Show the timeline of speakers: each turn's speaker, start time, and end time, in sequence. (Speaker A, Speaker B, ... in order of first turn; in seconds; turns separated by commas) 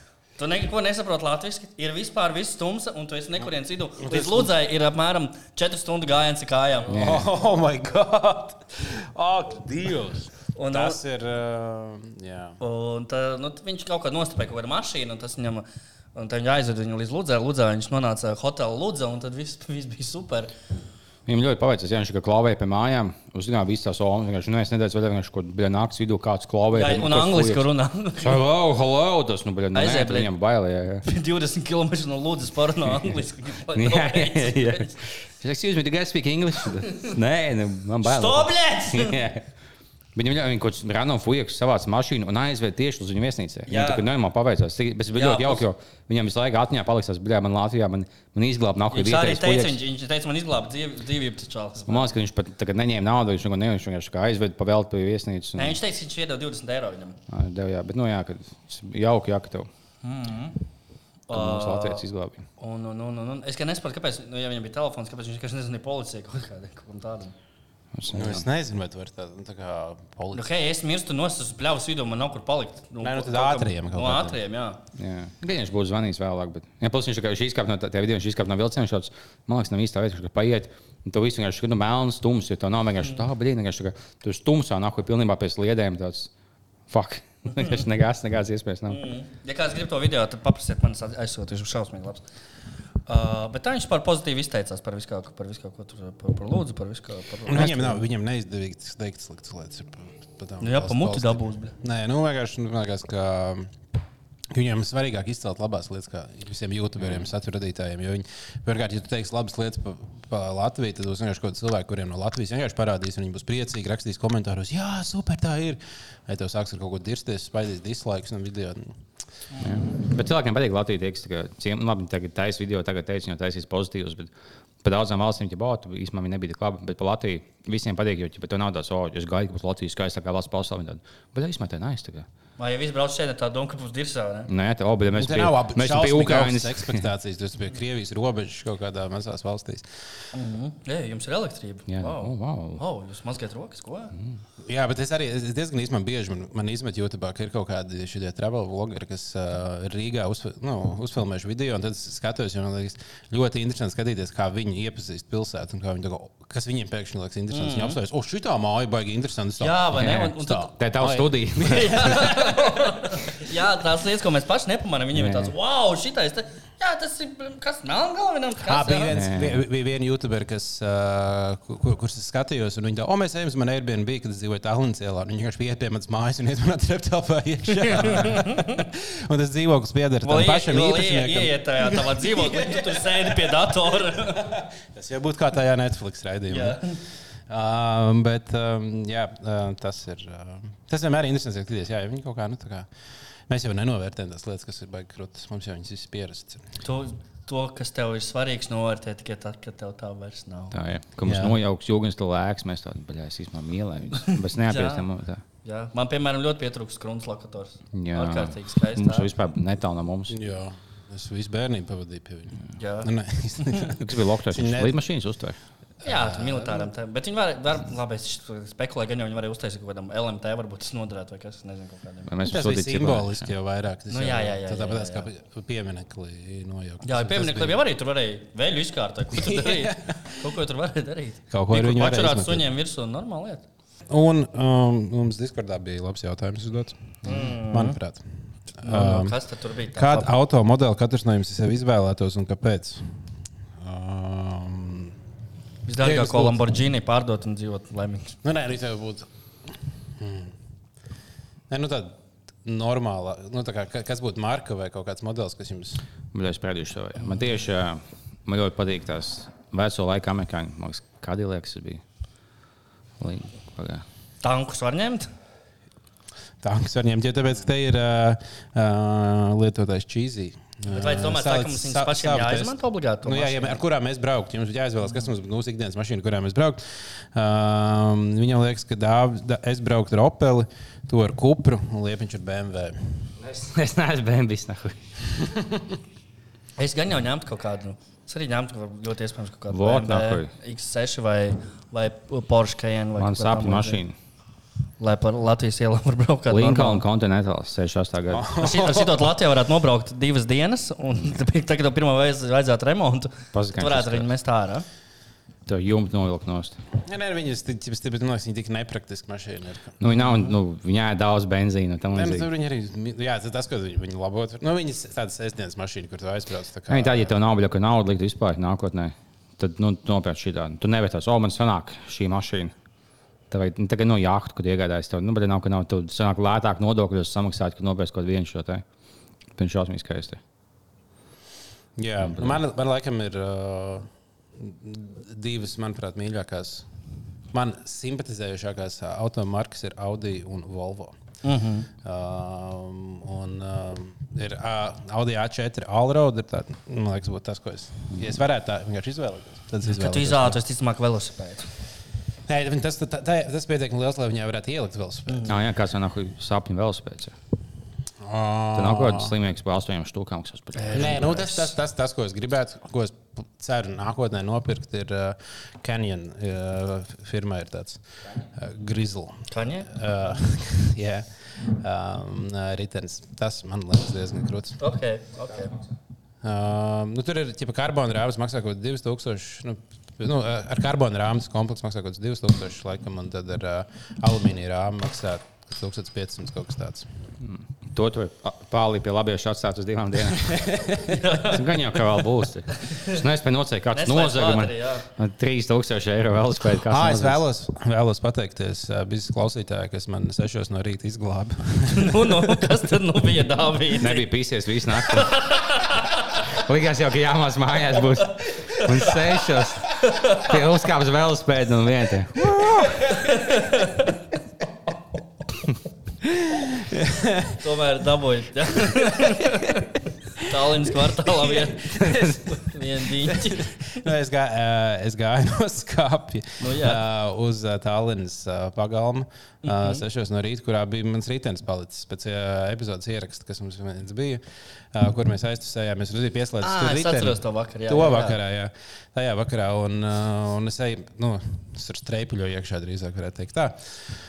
Speaker A: 0.4-6.9, Speaker B: 4.0-4.5, Speaker B: 6.9-12.6, Speaker C: 6.9-7.3, Speaker A: 10.6-11.0, Speaker A: 12.6-20.5, Speaker C: 21.3-27.7, Speaker A: 26.7-28.4, Speaker C: 28.2-31.1, Speaker A: 29.7-30.3, Speaker A: 31.0-35.0, Speaker C: 33.8-39.4, Speaker A: 38.0-39.2, Speaker C: 40.1-49.8, Speaker A: 43.7-44.0, Speaker A: 45.1-45.6, Speaker A: 48.9-52.1, Speaker C: 51.9-55.8, Speaker A: 55.6-57.2, Speaker C: 57.3-59.7, Speaker A: 60.0-60.6, Speaker A: 61.3-62.0, Speaker C: 61.3-62.5, Speaker A: 62.6-67.3, Speaker C: 67.9-68.5, Speaker B: 68.1-70.5, Speaker A: 70.3-74.8, Speaker B: 73.0-74.4, Speaker C: 75.0-86.3, Speaker C: 86.9-89.0, Speaker A: 88.9-92.2, Speaker A: 93.1-98.0, Speaker B: 97.5-103.7, Speaker A: 100.6-101.7, Speaker B: 104.5-119.0, Speaker C: 119.6-124.3, Speaker C: 124.8-132.3, Speaker A: 132.6-134.5, Speaker C: 134.5-137.1, Speaker B: 135.2-139.9, Speaker A: 140.3-144.1, Speaker C: 141.9-142.8, Speaker B: 144.6-163.0, Speaker A: 157.5-158.0, Speaker A: 159.6-160.7, Speaker C: 159.9-162.3, Speaker A: 161.6-169.2, Speaker C: 165.1-165.5, Speaker B: 168.6-186.8, Speaker C: 169.1-169.6, Speaker A: 177.7-178.9, Speaker A: 180.2-184.6, Speaker A: 186.5-187.0, Speaker B: 187.5-192.9, Speaker B: 193.5-196.7, Speaker A: 196.8-200.8, Speaker C: 200.7-205.4, Speaker B: 201.2-201.6, Speaker A: 204.2-205.1, Speaker A: 205.6-209.3, Speaker C: 207.9-210.4, Speaker B: 210.3-215.0, Speaker A: 212.8-213.1, Speaker C: 214.0-215.6, Speaker B: 216.0-216.9, Speaker A: 216.0-222.3, Speaker C: 222.3-223.5, Speaker B: 222.4-227.8, Speaker A: 224.1-225.3, Speaker A: 227.0-233.7, Speaker B: 229.3-230.3, Speaker B: 231.5-232.7, Speaker B: 234.1-238.2, Speaker A: 237.2-238.0, Speaker B: 238.8-239.4, Speaker A: 238.8-240.3, Speaker B: 239.9-243.2, Speaker B: 243.8-245.2, Speaker A: 245.9-248.4, Speaker B: 246.0-246.6, Speaker B: 248.4-249.3, Speaker B: 250.2-250.5, Speaker B: 251.7-256.0, Speaker C: 256.3-262.0, Speaker C: 263.2-264.0, Speaker A: 264.4-265.3, Speaker B: 266.6-276.8, Speaker A: 270.9-273.8, Speaker B: 277.3-283.3, Speaker C: 283.4-285.0, Speaker A: 286.8-294.0, Speaker C: 289.7-290.5, Speaker C: 293.2-294.1, Speaker A: 295.0-297.0, Speaker C: 296.5-298.5, Speaker B: 298.3-299.3, Speaker A: 298.6-304.9, Speaker C: 303.5-304.3, Speaker C: 305.7-306.8, Speaker B: 307.0-310.5, Speaker C: 310.0-312.5, Speaker B: 312.1-317.4, Speaker C: 316.9-322.7, Speaker C: 323.5-328.8, Speaker C: 329.6-330.4, Speaker B: 332.0-336.9, Speaker C: 332.2-332.6, Speaker B: 337.5-341.2, Speaker A: 341.4-341.9, Speaker B: 342.0-350.6, Speaker A: 349.9-351.7, Speaker B: 352.5-355.6, Speaker A: 355.3-355.5, Speaker C: 355.5-357.3, Speaker B: 358.2-359.3, Speaker C: 358.8-361.4, Speaker A: 360.8-361.7, Speaker B: 360.9-374.8, Speaker A: 369.5-369.9, Speaker A: 374.8-375.8, Speaker B: 376.4-387.1, Speaker C: 387.4-390.8, Speaker B: 390.5-391.2, Speaker A: 391.0-391.8, Speaker C: 391.4-397.4, Speaker A: 392.9-393.2, Speaker A: 393.9-395.1, Speaker B: 396.9-402.8, Speaker A: 401.9-404.2, Speaker C: 404.0-405.6, Speaker A: 405.1-406.2, Speaker C: 406.3-412.9, Speaker A: 408.7-409.1, Speaker A: 410.0-410.6, Speaker B: 412.6-413.0, Speaker A: 412.8-414.2, Speaker B: 416.5-417.6, Speaker A: 417.6-423.8, Speaker B: 418.9-419.5, Speaker B: 421.4-422.4, Speaker B: 423.2-443.8, Speaker A: 426.6-427.0, Speaker A: 429.6-430.0, Speaker A: 436.6-438.4